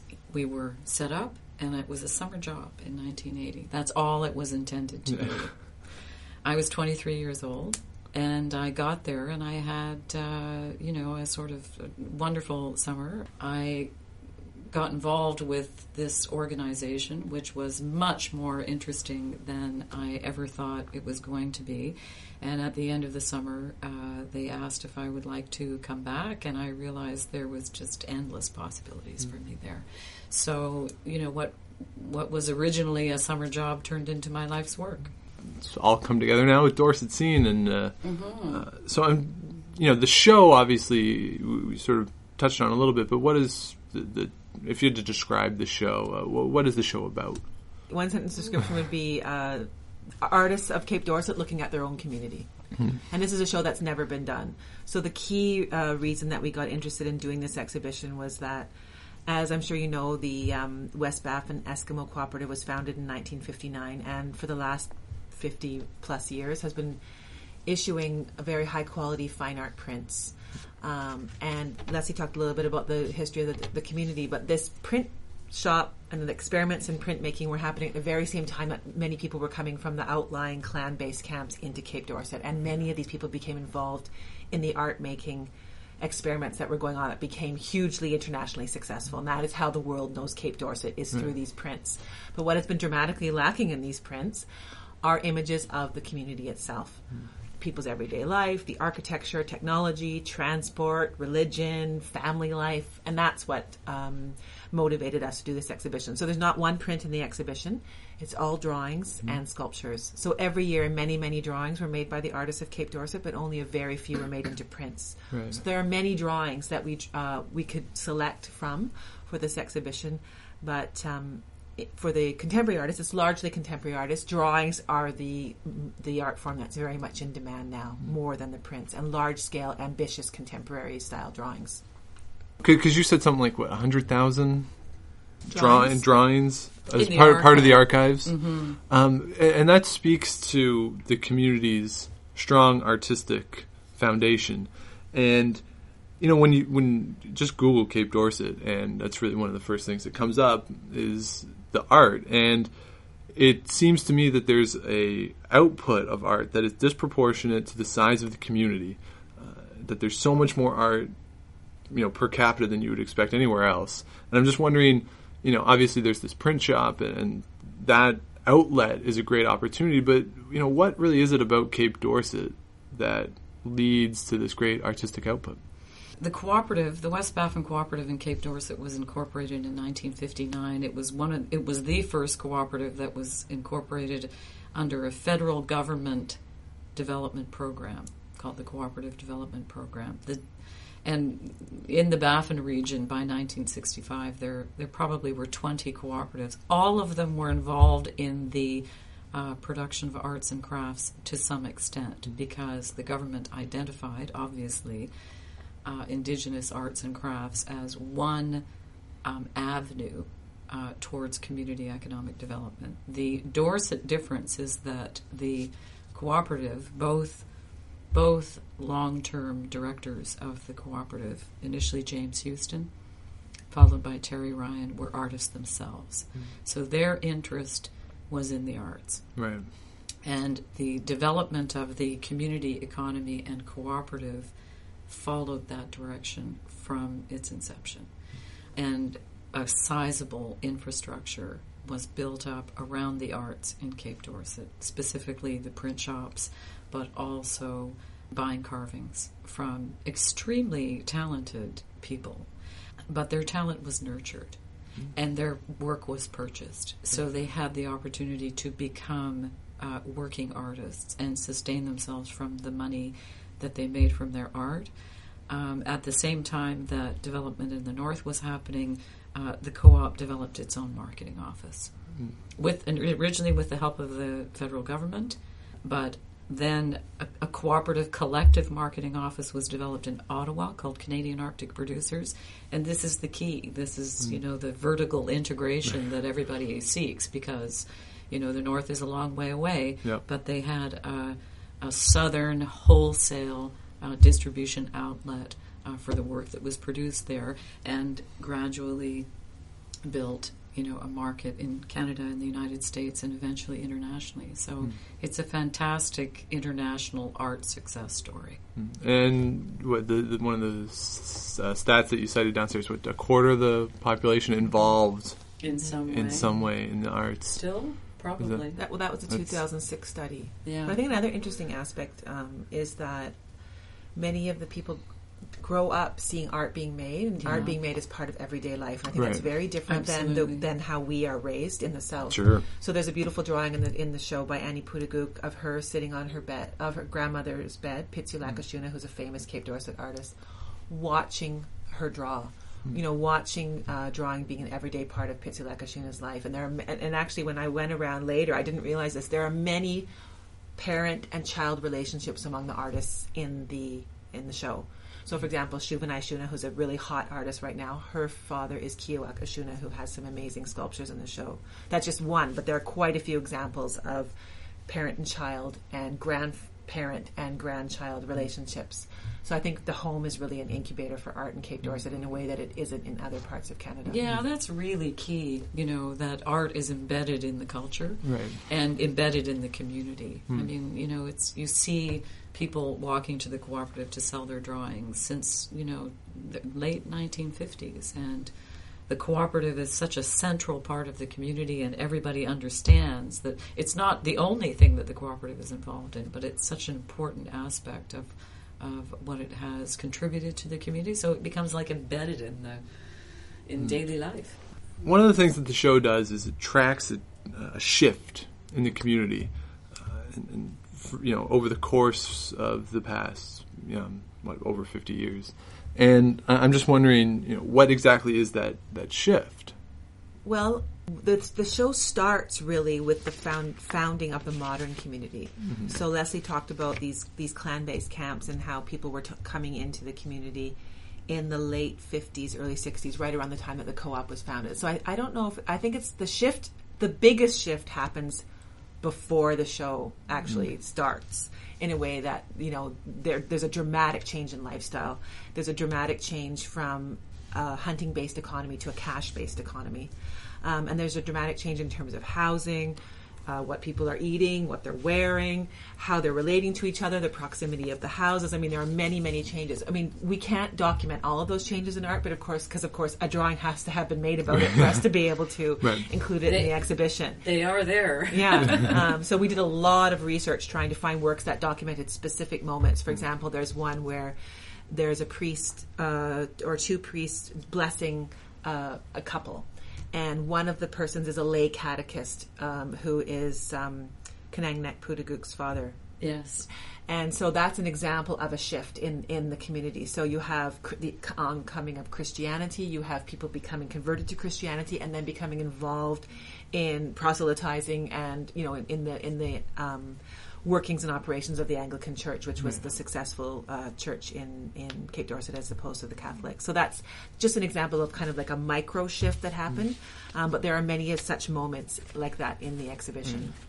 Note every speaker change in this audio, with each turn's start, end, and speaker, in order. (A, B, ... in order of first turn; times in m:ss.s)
0:00.3-0:35.1 A
0:35.4-0:47.4 B
0:38.0-0:38.6 A
0:47.9-0:49.7 C
0:50.2-0:58.7 C
0:59.2-1:07.0 C
1:07.6-1:34.5 C
1:35.0-2:11.8 C
1:55.3-1:55.6 B
2:12.6-2:14.7 B
2:15.5-2:32.7 B
2:15.5-2:16.0 C
2:16.9-2:18.8 A
2:33.2-2:41.1 B
2:41.8-2:55.6 B
2:56.2-3:49.6 A
3:49.4-3:49.7 B
3:50.2-5:08.6 A
5:08.8-5:18.6 B
5:15.6-5:18.8 A
5:18.8-5:23.5 C
5:19.3-5:19.6 B
5:20.6-5:21.0 A
5:24.1-5:50.1 C
5:27.4-5:27.8 A
5:29.1-5:29.5 B
5:29.9-5:30.7 A
5:32.3-5:32.6 B
5:50.8-6:04.3 C
6:04.9-6:14.2 C
6:14.1-6:44.6 A
6:18.2-6:18.6 B
6:45.0-6:59.8 B
7:00.4-7:18.4 C
7:05.7-7:05.9 B
7:19.0-7:47.4 C
7:45.8-7:46.0 B
7:46.5-7:49.0 A
7:48.3-7:54.4 C
7:54.9-8:06.1 C
8:06.2-8:06.7 A
8:06.6-8:33.6 C